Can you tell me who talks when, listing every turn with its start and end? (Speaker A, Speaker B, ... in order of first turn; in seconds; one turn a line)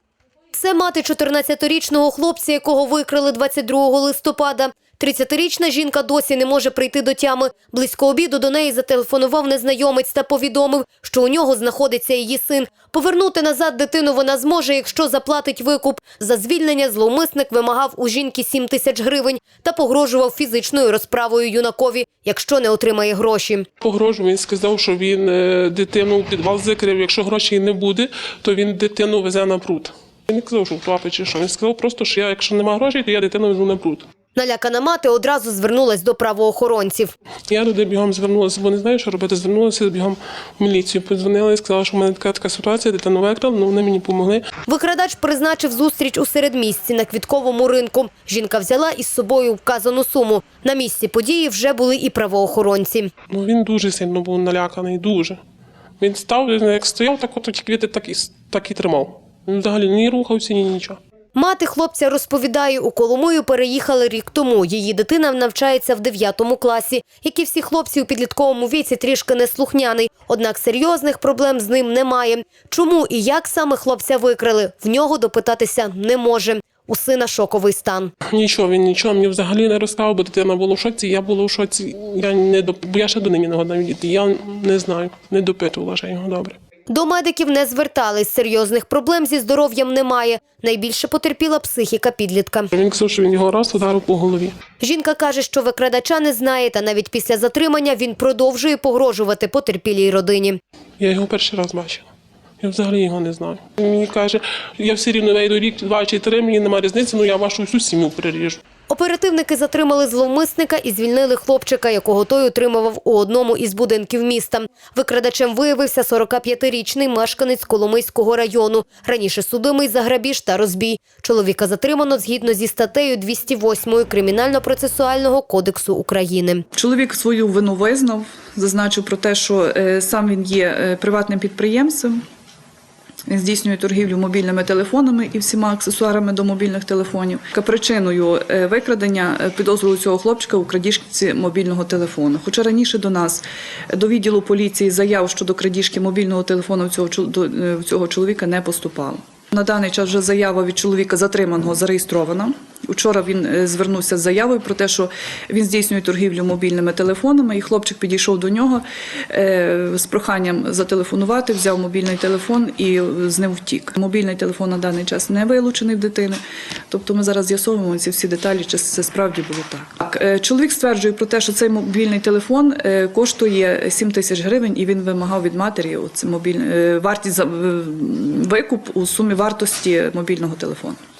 Speaker A: 0.5-23.7
Speaker B: 23.8-34.1
Speaker A: 34.3-37.1
Speaker B: 37.5-44.4
Speaker A: 44.6-53.1
Speaker B: 53.3-55.4
Speaker B: 56.0-61.0
Speaker A: 61.3-78.1
Speaker B: 78.3-86.6
Speaker A: 86.9-92.7
Speaker B: 92.7-94.5
Speaker A: 94.8-100.6
Speaker B: 101.0-102.1
Speaker B: 102.6-108.6
Speaker A: 108.9-126.6
Speaker C: 126.7-132.2
Speaker C: 133.3-181.0